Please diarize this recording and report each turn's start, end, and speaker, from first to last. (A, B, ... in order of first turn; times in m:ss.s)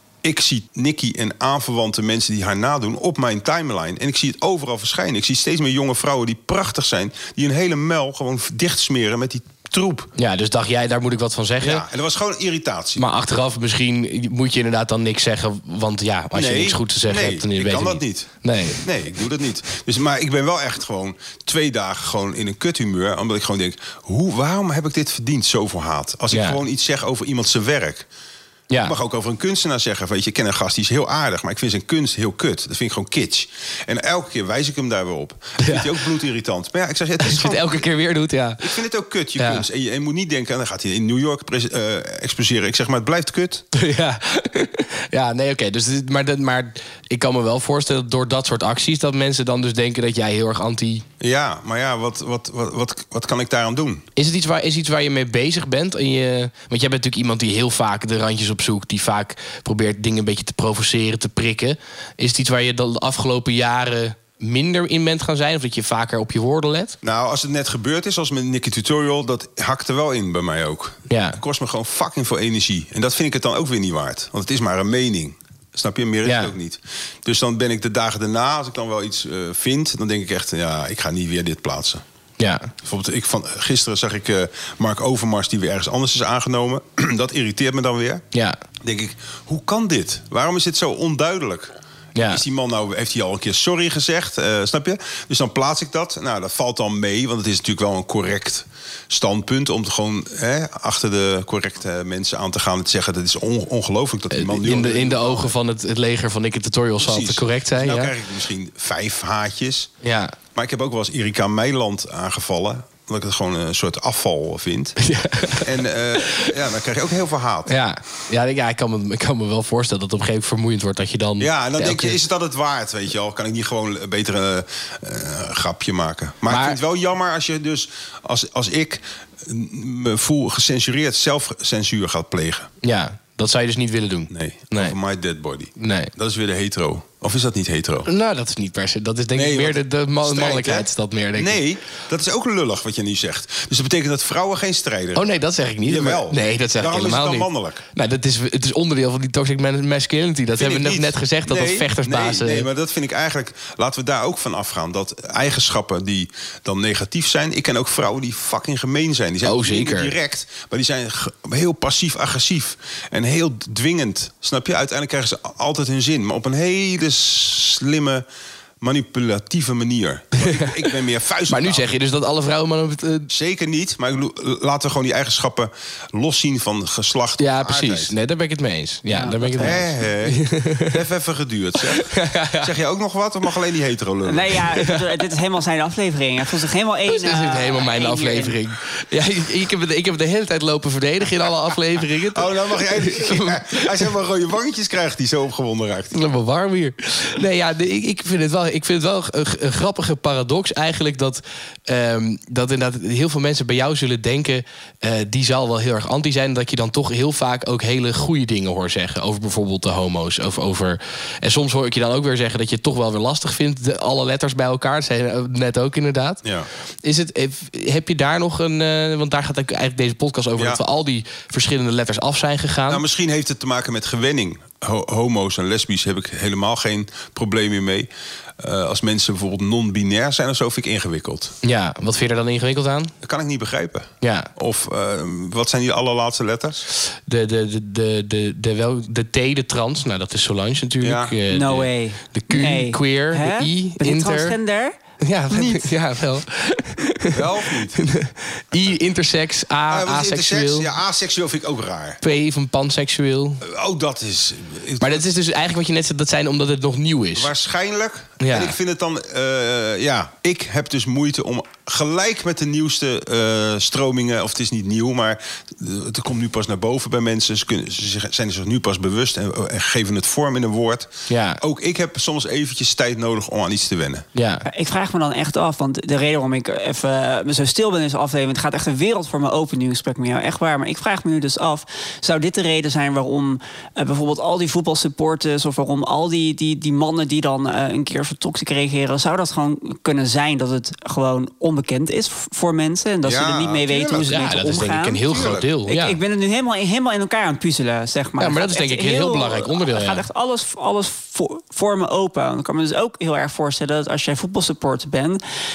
0:00.2-0:10.1 A
0:10.2-0:11.9 B
0:11.6-0:13.1 A
0:13.0-0:18.8 B
0:16.3-0:28.1 A
0:26.3-0:26.6 B
0:28.7-0:29.0 B
0:28.8-0:37.9 A
0:35.6-0:35.9 B
0:37.2-0:38.7 B
0:38.6-0:43.6 A
0:39.4-0:39.6 B
0:43.7-0:51.0 B
0:51.2-0:54.1 A
0:54.2-1:07.0 B
1:07.0-1:22.0 A
1:11.1-1:11.4 B
1:16.2-1:16.5 B
1:22.4-1:22.7 B
1:22.8-1:28.2 A
1:28.8-1:45.6 A
1:32.2-1:32.4 B
1:44.3-1:48.1 B
1:47.0-1:49.9 A
1:50.0-1:50.4 B
1:50.6-1:55.0 A
1:55.0-1:55.7 B
1:55.6-1:57.8 A
1:57.7-2:02.2 B
2:01.4-2:12.7 A
2:06.5-2:06.8 B
2:12.8-2:15.0 B
2:14.3-2:18.1 A
2:15.8-2:16.1 B
2:18.1-2:21.6 B
2:19.3-2:25.3 A
2:25.2-2:32.7 B
2:25.8-2:27.8 A
2:30.5-2:48.2 A
2:39.4-2:40.1 B
2:48.8-2:51.8 A
2:51.5-2:53.3 B
2:53.3-2:58.1 A
2:57.4-3:01.0 B
2:59.1-2:59.9 C
2:59.6-3:02.1 A
3:02.0-3:02.7 B
3:02.6-3:04.6 A
3:04.2-3:08.6 C
3:04.8-3:05.0 B
3:07.1-3:13.9 B
3:12.3-3:16.2 A
3:16.1-3:36.4 B
3:37.0-3:43.0 B
3:40.6-3:40.8 A
3:42.9-3:48.1 A
3:48.6-3:51.5 A
3:51.6-3:53.1 B
3:53.2-3:56.8 A
3:54.2-3:54.5 B
3:57.0-4:04.6 B
4:01.0-4:01.4 A
4:01.5-4:04.9 C
4:05.2-4:10.9 B
4:05.5-4:05.9 C
4:07.3-4:08.0 A
4:09.9-4:12.2 A
4:12.2-4:13.6 B
4:13.6-4:15.2 A
4:15.0-4:17.5 B
4:17.4-4:34.3 A
4:18.4-4:18.8 B
4:31.3-4:31.6 B
4:34.4-4:34.6 B
4:34.7-4:55.3 C
4:53.2-4:54.3 A
4:54.3-4:56.2 B
4:55.3-4:55.7 A
4:55.9-5:05.4 C
4:58.4-5:00.2 B